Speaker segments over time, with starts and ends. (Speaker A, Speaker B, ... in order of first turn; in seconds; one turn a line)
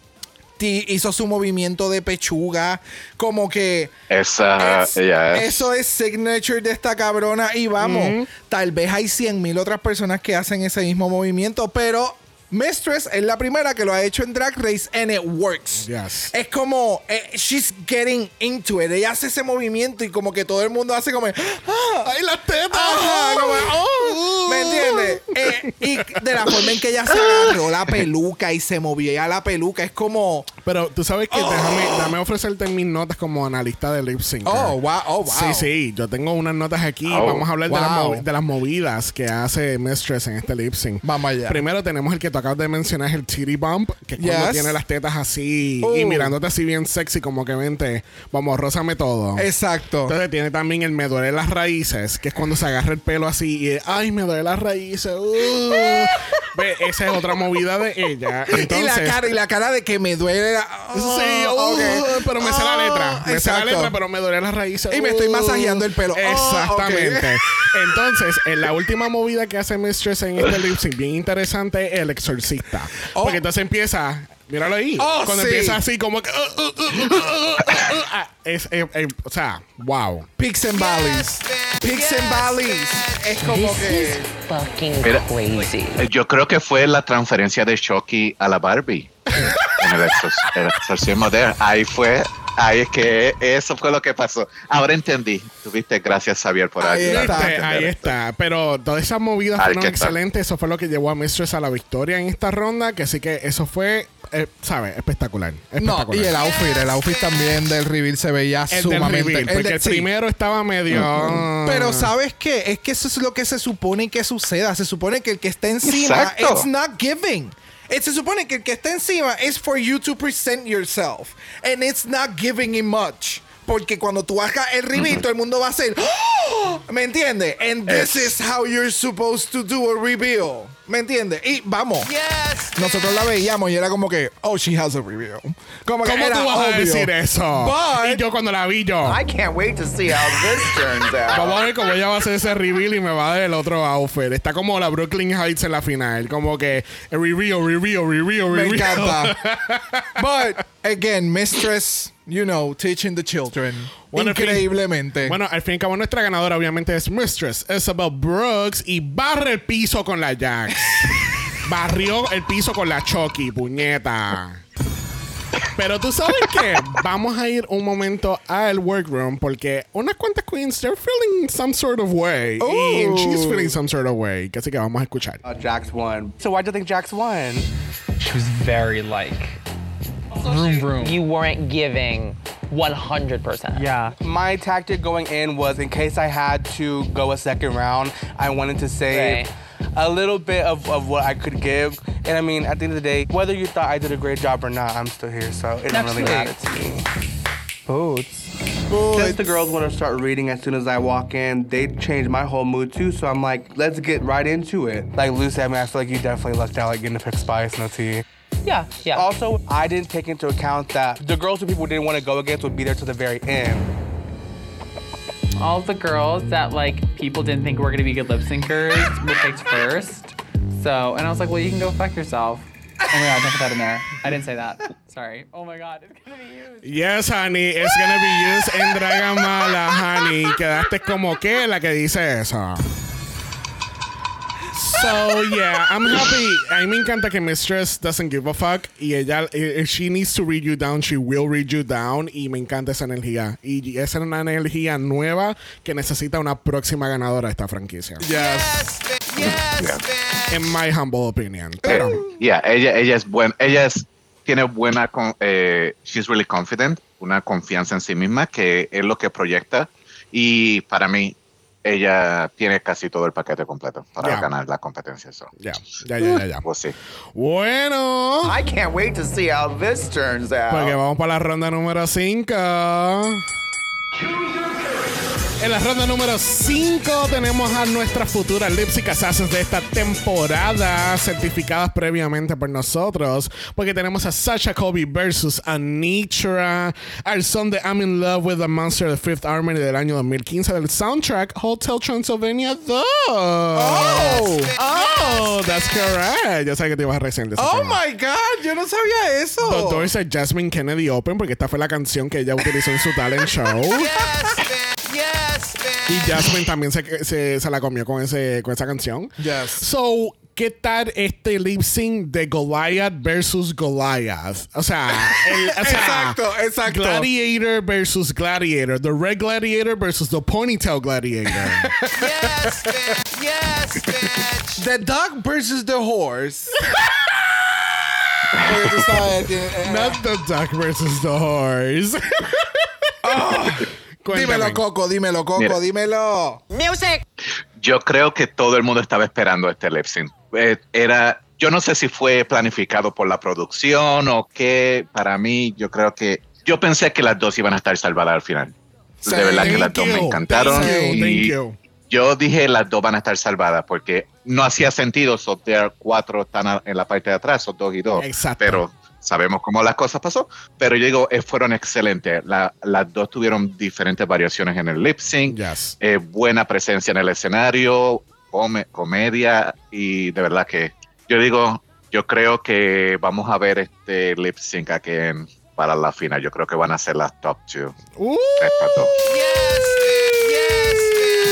Speaker A: 0.6-3.9
Speaker B: 4.1-5.7
Speaker A: 4.6-22.1
Speaker C: 7.8-8.3
Speaker C: 15.8-16.3
Speaker C: 22.0-26.6
Speaker A: 22.7-30.5
Speaker C: 30.6-49.5
Speaker A: 31.3-32.1
Speaker A: 34.4-35.7
Speaker B: 37.1-37.5
Speaker A: 37.7-38.2
Speaker A: 41.0-41.6
Speaker A: 44.2-44.8
Speaker A: 45.8-46.3
Speaker A: 49.4-50.1
Speaker C: 50.0-59.2
Speaker A: 55.5-56.2
Speaker A: 58.5-64.0
Speaker C: 60.9-80.3
Speaker A: 64.9-67.4
Speaker A: 73.1-73.4
Speaker A: 75.0-75.8
Speaker A: 80.4-84.2
Speaker D: 83.4-86.0
Speaker B: 86.0-98.1
Speaker C: 89.4-89.8
Speaker A: 96.8-97.5
Speaker C: 97.0-106.3
Speaker B: 99.6-100.2
Speaker A: 105.8-110.1
Speaker C: 108.7-112.1
Speaker A: 111.0-138.2
Speaker B: 115.8-116.7
Speaker B: 127.9-128.3
Speaker C: 136.0-139.2
Speaker E: 139.0-141.6
Speaker C: 140.1-140.6
Speaker C: 141.3-150.2
Speaker A: 148.5-149.3
Speaker A: 150.2-155.4
Speaker C: 154.1-161.1
Speaker C: 161.6-164.6
Speaker C: 165.7-175.4
Speaker A: 172.6-173.8
Speaker F: 175.4-177.7
Speaker G: 178.2-179.6
Speaker F: 180.4-181.2
Speaker G: 180.4-181.2
Speaker D: 181.3-182.2
Speaker D: 183.0-183.5
Speaker G: 183.6-184.2
Speaker F: 183.8-197.0
Speaker G: 189.1-189.5
Speaker G: 195.9-196.6
Speaker F: 197.9-208.2
Speaker A: 199.1-199.4
Speaker G: 208.7-209.2
Speaker F: 209.1-213.9
Speaker G: 215.6-226.8
Speaker C: 226.8-232.8
Speaker C: 234.7-248.2
Speaker A: 248.2-249.0
Speaker B: 249.4-250.0
Speaker C: 250.5-252.2
Speaker A: 251.8-252.2
Speaker B: 251.8-265.5
Speaker C: 264.2-264.5
Speaker C: 265.6-266.6
Speaker B: 266.6-266.9
Speaker C: 267.3-268.6
Speaker E: 268.4-271.0
Speaker C: 270.7-273.4
Speaker C: 275.6-298.0
Speaker A: 293.7-294.8
Speaker A: 297.6-300.1
Speaker C: 299.6-304.1
Speaker A: 304.2-304.5
Speaker C: 306.1-321.9
Speaker A: 306.2-306.5
Speaker A: 309.4-309.8
Speaker A: 315.4-317.3
Speaker A: 321.6-322.6
Speaker A: 324.8-326.7
Speaker C: 326.9-327.4
Speaker A: 328.6-330.2
Speaker C: 329.8-332.9
Speaker A: 333.2-336.6
Speaker C: 334.2-334.8
Speaker D: 336.7-337.2
Speaker B: 337.8-351.5
Speaker A: 349.2-349.9
Speaker C: 349.6-351.8
Speaker A: 350.6-351.2
Speaker B: 352.1-378.0
Speaker C: 358.2-358.8
Speaker C: 365.5-366.0
Speaker C: 378.2-381.3
Speaker B: 378.6-379.1